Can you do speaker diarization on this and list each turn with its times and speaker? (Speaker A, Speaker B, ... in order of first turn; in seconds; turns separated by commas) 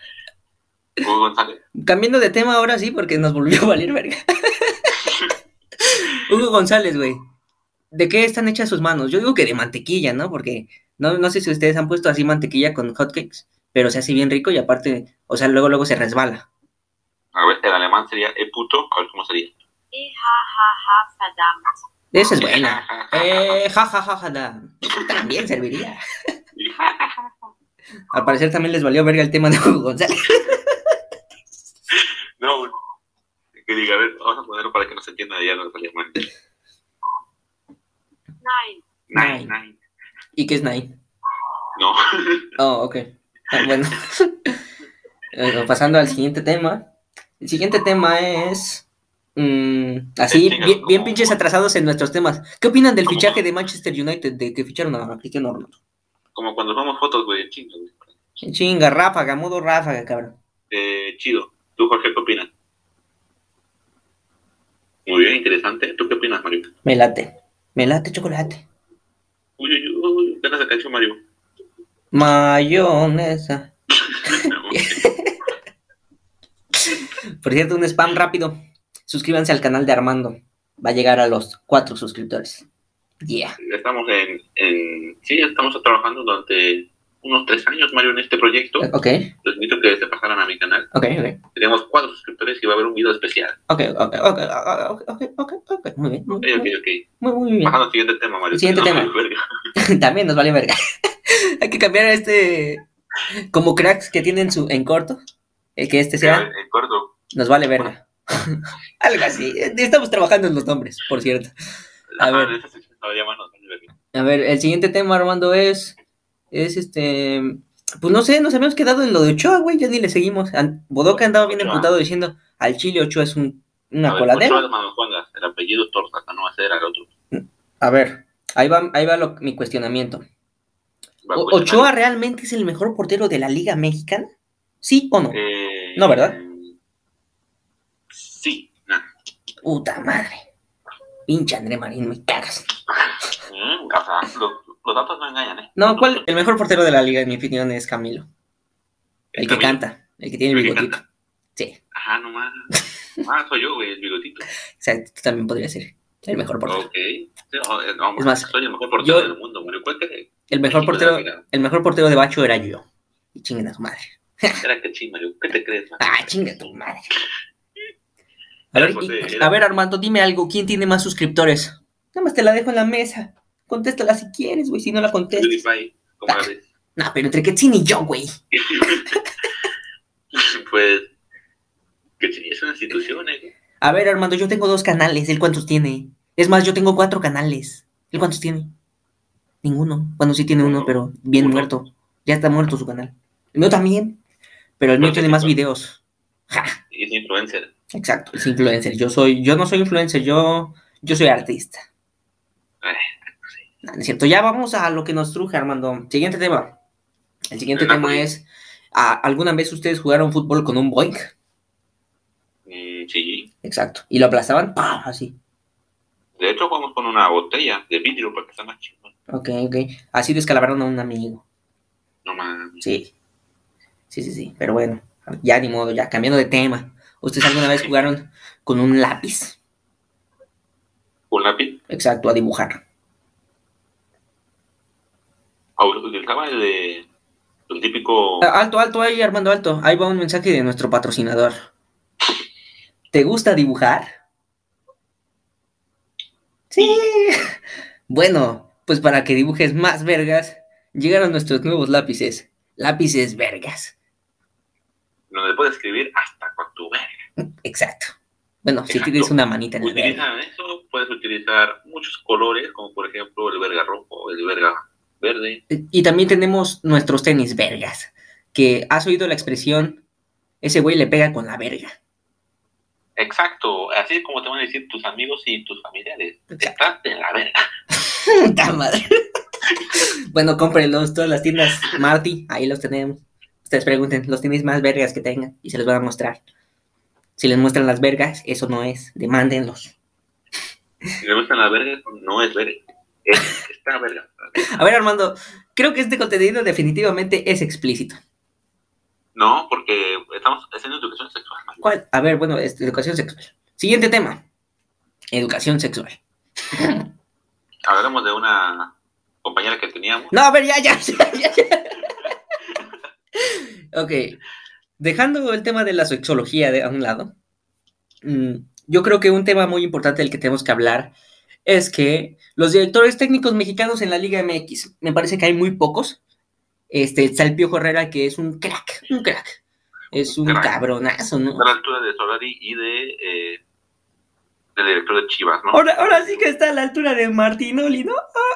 Speaker A: 1.0-1.6, Speaker B: 1.8-4.8, Speaker B: 5.9-7.2, Speaker B: 7.9-16.5, Speaker A: 17.3-19.5, Speaker C: 19.9-21.6, Speaker B: 22.1-26.0, Speaker A: 22.4-23.6, Speaker A: 26.6-27.5, Speaker B: 28.1-30.8, Speaker A: 31.9-32.7, Speaker A: 33.6-36.2, Speaker C: 38.4-38.8, Speaker A: 39.1-39.8, Speaker B: 39.1-39.5, Speaker B: 40.4-41.0, Speaker A: 41.8-42.5, Speaker B: 42.6-44.5, Speaker B: 45.3-46.9, Speaker B: 47.4-48.8, Speaker B: 49.4-55.8, Speaker A: 50.3-51.4, Speaker A: 53.0-53.4, Speaker A: 56.3-58.1, Speaker B: 58.4-60.4, Speaker A: 60.7-62.5, Speaker A: 65.0-66.7, Speaker B: 66.8-68.6, Speaker A: 69.6-71.2, Speaker B: 72.1-73.7, Speaker A: 74.1-75.1, Speaker B: 74.7-75.3, Speaker B: 76.9-78.5, Speaker B: 79.1-82.7, Speaker B: 83.2-83.6, Speaker A: 83.6-88.9, Speaker B: 88.8-89.3, Speaker A: 89.4-90.9, Speaker B: 90.9-91.4, Speaker A: 91.5-93.6, Speaker B: 93.7-97.8, Speaker A: 96.4-97.0, Speaker A: 97.6-99.4, Speaker B: 98.5-99.1, Speaker B: 99.8-100.8, Speaker B: 101.6-102.8, Speaker B: 103.5-105.2, Speaker B: 105.8-106.5, Speaker A: 106.2-107.1, Speaker B: 107.3-111.5, Speaker A: 112.2-113.9, Speaker B: 112.2-112.5, Speaker B: 114.1-115.9, Speaker B: 116.5-124.6, Speaker A: 121.1-121.9, Speaker A: 124.1-127.1, Speaker B: 127.3-130.2, Speaker A: 131.2-131.9, Speaker B: 131.3-134.3, Speaker B: 134.8-135.4, Speaker A: 135.3-136.7, Speaker B: 136.0-136.3, Speaker A: 138.1-139.0, Speaker B: 139.6-140.4, Speaker B: 141.3-142.7, Speaker A: 143.4-146.5, Speaker B: 145.8-148.3, Speaker A: 149.3-149.8, Speaker B: 149.4-151.0, Speaker A: 150.5-151.0, Speaker A: 151.9-152.7, Speaker A: 153.2-154.4, Speaker B: 154.8-156.8, Speaker A: 156.7-161.4, Speaker B: 158.2-159.3, Speaker B: 160.5-164.6, Speaker A: 164.6-166.7, Speaker B: 166.0-167.1, Speaker B: 168.7-175.6, Speaker A: 168.7-169.6, Speaker A: 175.3-176.6, Speaker B: 176.3-178.3, Speaker A: 178.5-179.2, Speaker A: 180.3-181.1, Speaker A: 182.2-183.5, Speaker B: 183.8-188.7, Speaker B: 189.6-194.2, Speaker A: 190.6-191.7, Speaker B: 194.8-196.8, Speaker A: 195.0-195.5, Speaker A: 196.9-197.7, Speaker B: 197.9-201.9, Speaker A: 202.8-203.6, Speaker B: 203.8-206.8, Speaker B: 207.5-211.3, Speaker A: 207.8-208.2, Speaker A: 212.7-213.5, Speaker B: 213.6-215.3, Speaker A: 216.4-219.1, Speaker B: 219.3-221.4, Speaker A: 222.2-222.8, Speaker B: 222.8-223.1, Speaker B: 224.1-229.6, Speaker A: 227.5-227.9, Speaker A: 231.3-231.8, Speaker B: 231.9-232.8, Speaker A: 235.8-237.1, Speaker A: 237.7-238.5, Speaker B: 238.4-241.5, Speaker B: 243.1-244.1, Speaker B: 246.7-247.4, Speaker B: 248.1-253.9, Speaker A: 255.3-257.1, Speaker B: 257.4-260.2, Speaker A: 258.9-265.6, Speaker B: 265.7-270.0, Speaker B: 270.6-271.9, Speaker A: 273.2-277.6, Speaker B: 278.0-279.0, Speaker B: 280.3-286.4, Speaker B: 287.4-289.9, Speaker A: 291.2-294.8, Speaker B: 294.7-298.2, Speaker A: 299.3-301.9, Speaker B: 301.8-304.4, Speaker B: 305.3-306.2, Speaker B: 306.7-307.1, Speaker A: 307.8-310.3, Speaker B: 310.3-312.0, Speaker B: 313.4-314.4, Speaker B: 315.0-317.3, Speaker B: 318.2-321.1, Speaker B: 321.6-326.2, Speaker B: 326.9-329.6, Speaker B: 330.1-331.6, Speaker A: 330.3-330.8, Speaker A: 331.6-333.6, Speaker A: 334.8-336.5, Speaker B: 335.7-338.1